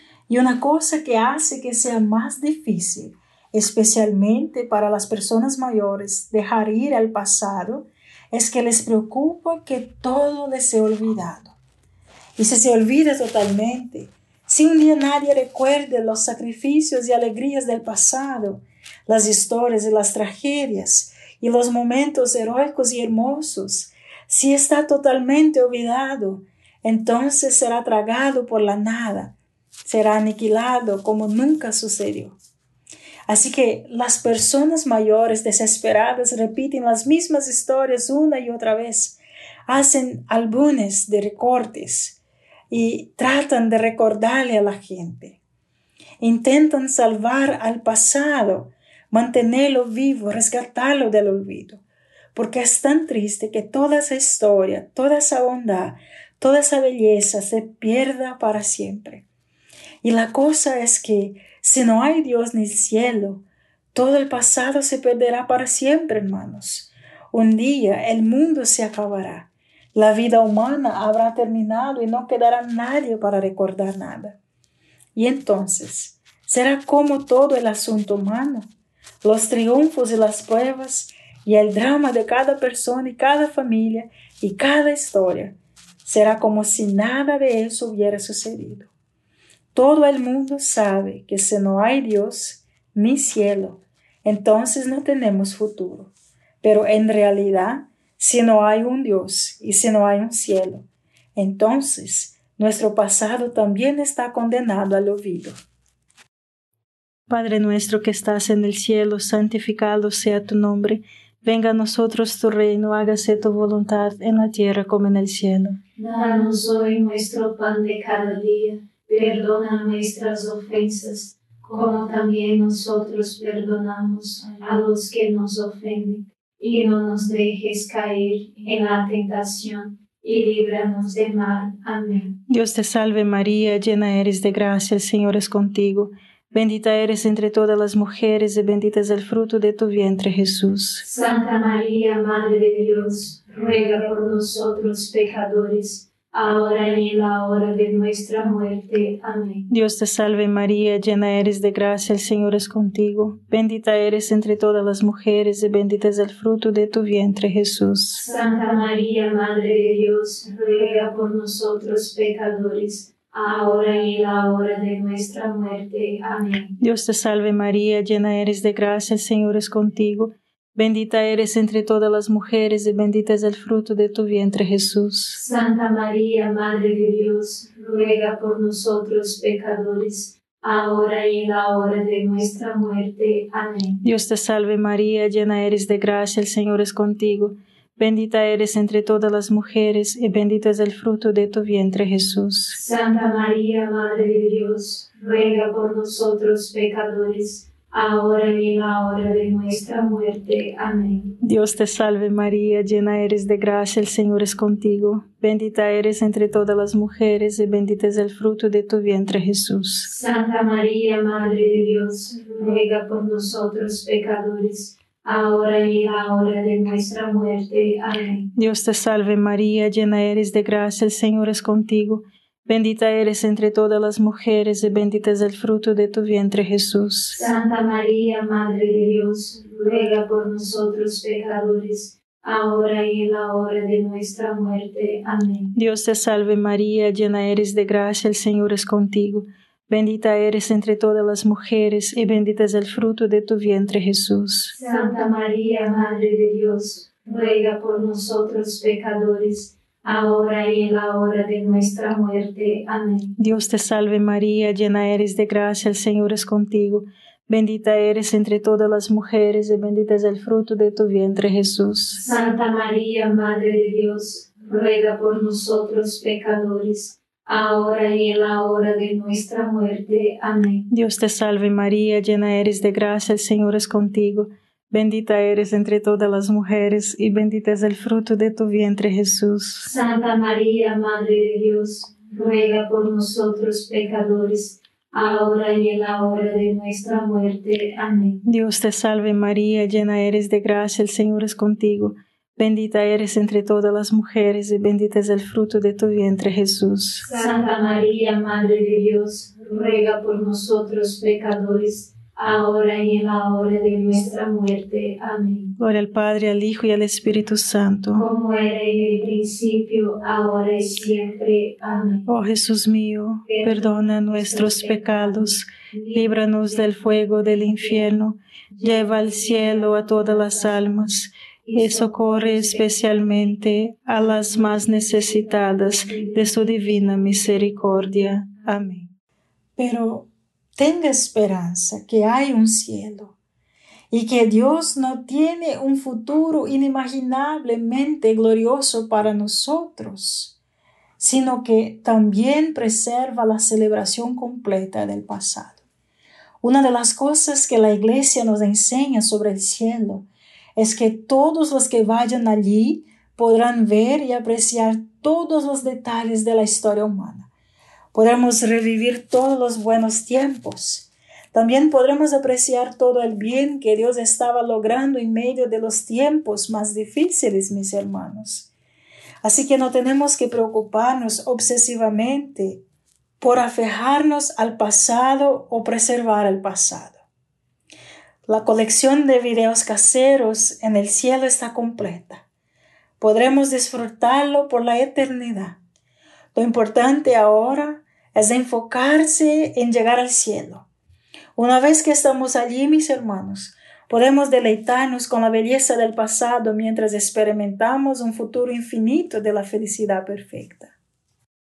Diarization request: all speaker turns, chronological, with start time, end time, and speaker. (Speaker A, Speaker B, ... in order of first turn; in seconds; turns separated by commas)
Speaker A: 0.3-11.5, Speaker A: 12.4-29.3, Speaker A: 29.8-32.4, Speaker A: 33.3-42.2, Speaker A: 42.7-45.4, Speaker A: 46.2-51.8, Speaker A: 52.3-59.2, Speaker A: 60.0-74.4, Speaker A: 75.1-78.7, Speaker A: 79.2-88.9, Speaker A: 89.7-96.1, Speaker A: 96.6-105.6, Speaker B: 107.3-115.8, Speaker C: 116.0-132.3, Speaker B: 132.5-141.0, Speaker C: 141.0-149.7, Speaker B: 149.7-158.2, Speaker C: 158.1-166.7, Speaker B: 166.8-175.4, Speaker C: 175.3-184.0, Speaker B: 184.0-192.8, Speaker C: 192.7-201.3, Speaker B: 201.4-210.1, Speaker C: 210.0-218.5, Speaker B: 218.5-227.4, Speaker C: 227.3-235.7, Speaker B: 235.7-244.8, Speaker C: 244.7-253.3, Speaker B: 253.4-262.2, Speaker C: 262.1-270.9, Speaker B: 270.9-279.9, Speaker C: 279.8-288.4, Speaker B: 288.4-297.3, Speaker C: 297.2-305.7, Speaker B: 305.8-308.2, Speaker C: 308.1-312.2, Speaker B: 312.3-329.1, Speaker C: 313.5-316.1, Speaker C: 318.7-320.7, Speaker C: 321.6-322.8, Speaker C: 326.1-326.4, Speaker A: 329.8-333.3, Speaker A: 334.1-340.6, Speaker A: 341.2-345.8, Speaker A: 346.6-357.5, Speaker A: 358.1-368.7, Speaker A: 369.4-372.8, Speaker A: 373.4-377.2, Speaker A: 378.5-382.4, Speaker A: 383.2-385.8, Speaker A: 386.5-390.8, Speaker A: 391.6-400.9